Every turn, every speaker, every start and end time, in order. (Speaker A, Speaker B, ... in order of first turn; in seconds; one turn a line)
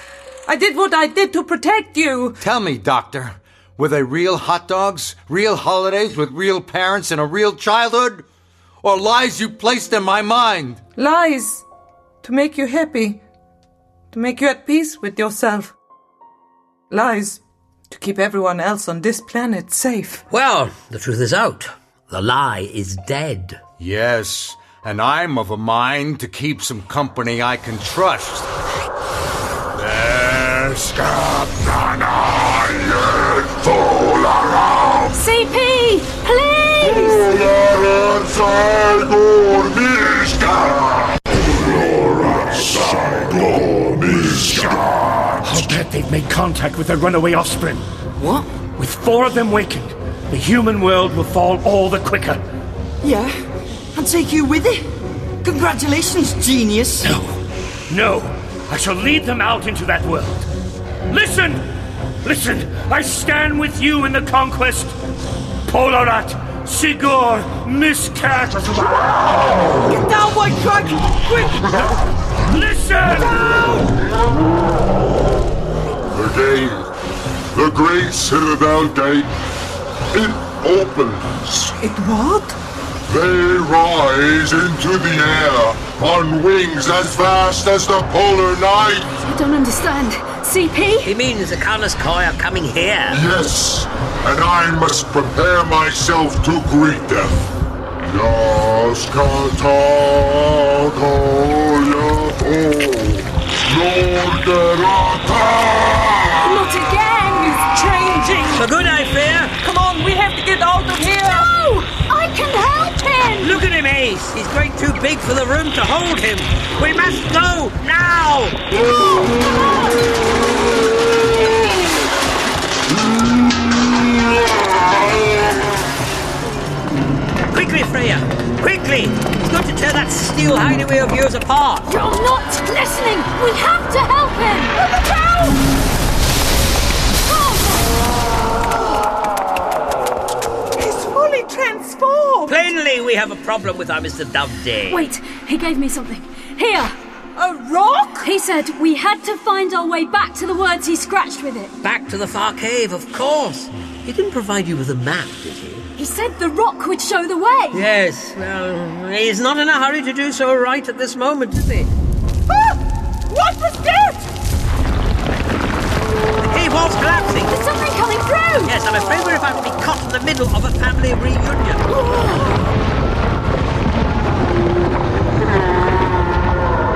Speaker A: 0.5-2.4
Speaker B: 2.4-8.2
Speaker B: 8.8-10.8
Speaker A: 11.0-11.7
Speaker A: 12.2-13.2
Speaker A: 14.1-15.7
Speaker A: 16.9-20.2
Speaker C: 20.3-23.6
Speaker B: 23.8-28.5
Speaker B: 29.8-30.8
Speaker D: 30.8-35.1
Speaker E: 35.1-37.2
Speaker D: 36.8-45.6
Speaker F: 44.2-44.8
Speaker F: 45.4-47.9
Speaker G: 48.2-48.5
Speaker F: 48.8-52.4
Speaker G: 53.0-53.4
Speaker G: 53.9-54.9
Speaker G: 55.4-57.1
Speaker F: 57.0-60.5
Speaker F: 61.1-61.7
Speaker F: 62.2-65.0
Speaker F: 65.7-69.1
Speaker G: 69.8-71.8
Speaker F: 72.4-73.9
Speaker D: 76.1-76.9
Speaker D: 77.5-79.3
Speaker D: 80.1-81.7
Speaker A: 81.8-82.6
Speaker D: 83.1-89.1
Speaker E: 89.2-91.1
Speaker C: 91.0-93.2
Speaker D: 93.1-97.5
Speaker D: 98.0-106.5
Speaker E: 106.4-107.7
Speaker A: 106.7-108.7
Speaker C: 108.5-109.5
Speaker A: 109.6-111.5
Speaker E: 111.1-113.6
Speaker C: 113.4-118.6
Speaker C: 127.5-131.9
Speaker E: 131.8-134.7
Speaker A: 134.8-135.6
Speaker E: 137.2-137.9
Speaker A: 140.8-142.5
Speaker C: 142.4-145.1
Speaker E: 144.9-146.9
Speaker A: 147.3-148.3
Speaker E: 148.2-151.7
Speaker C: 151.8-155.9
Speaker E: 156.0-157.8
Speaker C: 157.7-161.9
Speaker A: 163.3-164.3
Speaker C: 166.4-167.6
Speaker E: 167.5-168.7
Speaker C: 168.6-171.9